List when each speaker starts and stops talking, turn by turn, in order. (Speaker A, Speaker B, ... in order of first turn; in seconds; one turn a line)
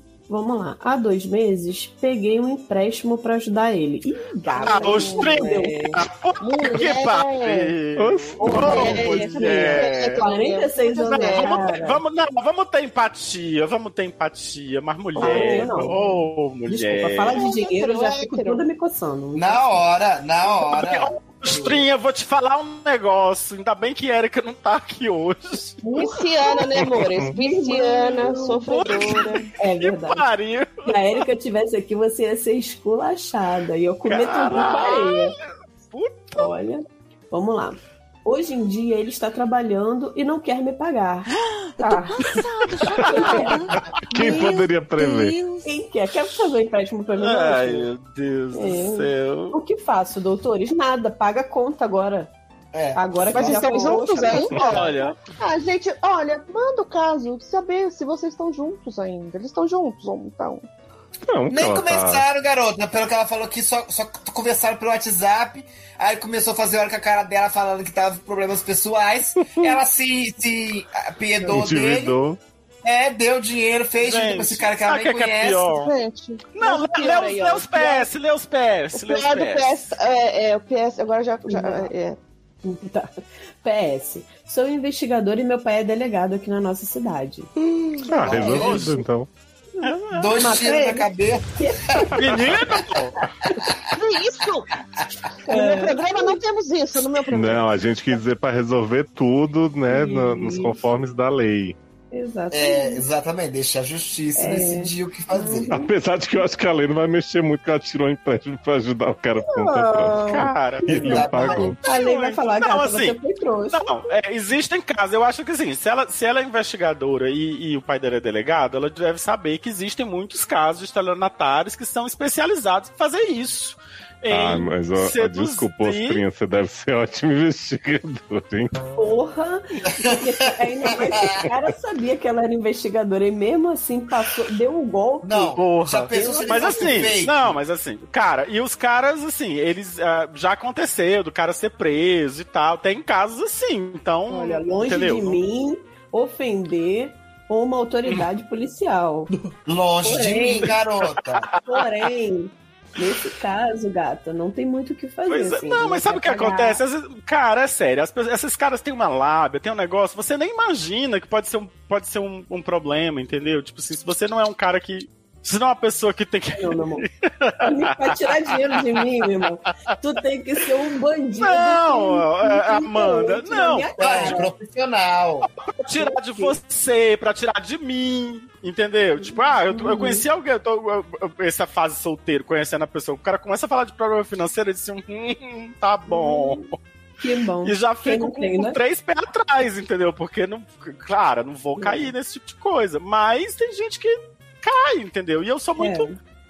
Speaker A: 0.3-6.0
Speaker B: 4.5-10.2
Speaker C: 4.6-5.8
Speaker C: 6.4-7.8
Speaker D: 8.0-9.1
Speaker A: 8.4-12.0
Speaker C: 8.4-11.7
Speaker B: 11.1-17.4
Speaker C: 15.2-16.1
Speaker A: 15.2-16.0
Speaker A: 16.7-19.8
Speaker C: 17.3-18.6
Speaker E: 19.3-21.9
Speaker B: 20.5-25.8
Speaker C: 25.8-29.5
Speaker D: 26.9-27.3
Speaker A: 27.3-28.9
Speaker B: 28.6-31.2
Speaker A: 29.6-30.2
Speaker A: 30.8-35.4
Speaker B: 34.0-36.5
Speaker A: 36.3-43.7
Speaker C: 42.6-43.6
Speaker D: 44.1-45.4
Speaker C: 44.1-45.2
Speaker A: 44.2-44.5
Speaker A: 45.6-47.9
Speaker B: 47.2-49.6
Speaker A: 48.5-52.3
Speaker E: 52.7-54.9
Speaker A: 52.9-54.7
Speaker C: 53.3-60.6
Speaker B: 54.6-55.1
Speaker D: 61.3-62.2
Speaker E: 61.5-72.2
Speaker D: 69.5-69.8
Speaker D: 71.4-72.4
Speaker E: 72.8-75.7
Speaker B: 74.0-75.9
Speaker C: 75.7-78.1
Speaker B: 76.5-79.8
Speaker C: 78.9-82.2
Speaker A: 81.5-81.9
Speaker A: 82.6-87.5
Speaker D: 88.1-89.3
Speaker E: 88.2-88.8
Speaker A: 88.3-88.9
Speaker B: 88.5-89.0
Speaker A: 89.8-92.2
Speaker B: 89.8-90.3
Speaker E: 90.1-92.4
Speaker B: 92.2-93.1
Speaker C: 93.9-94.7
Speaker C: 95.4-98.2
Speaker A: 95.5-96.4
Speaker D: 97.3-101.8
Speaker A: 99.9-100.8
Speaker A: 102.1-103.0
Speaker E: 102.5-105.7
Speaker A: 104.4-105.9
Speaker D: 105.7-110.3
Speaker A: 109.4-110.5
Speaker B: 110.2-113.2
Speaker D: 110.9-111.8
Speaker E: 110.9-111.8
Speaker A: 111.8-114.0
Speaker B: 113.7-126.2
Speaker D: 124.3-128.7
Speaker A: 128.9-137.1
Speaker E: 135.2-137.6
Speaker B: 135.6-145.4
Speaker A: 144.3-149.3
Speaker E: 149.6-151.5
Speaker A: 150.0-150.7
Speaker B: 151.4-151.8
Speaker A: 151.7-156.8
Speaker B: 155.3-168.2
Speaker A: 166.5-167.1
Speaker A: 167.6-174.5
Speaker B: 171.4-174.3
Speaker E: 174.0-175.5
Speaker B: 175.6-186.8
Speaker A: 175.9-176.6
Speaker A: 179.2-180.2
Speaker A: 186.1-186.7
Speaker A: 187.2-188.8
Speaker B: 187.6-196.1
Speaker A: 191.8-192.1
Speaker A: 195.8-196.2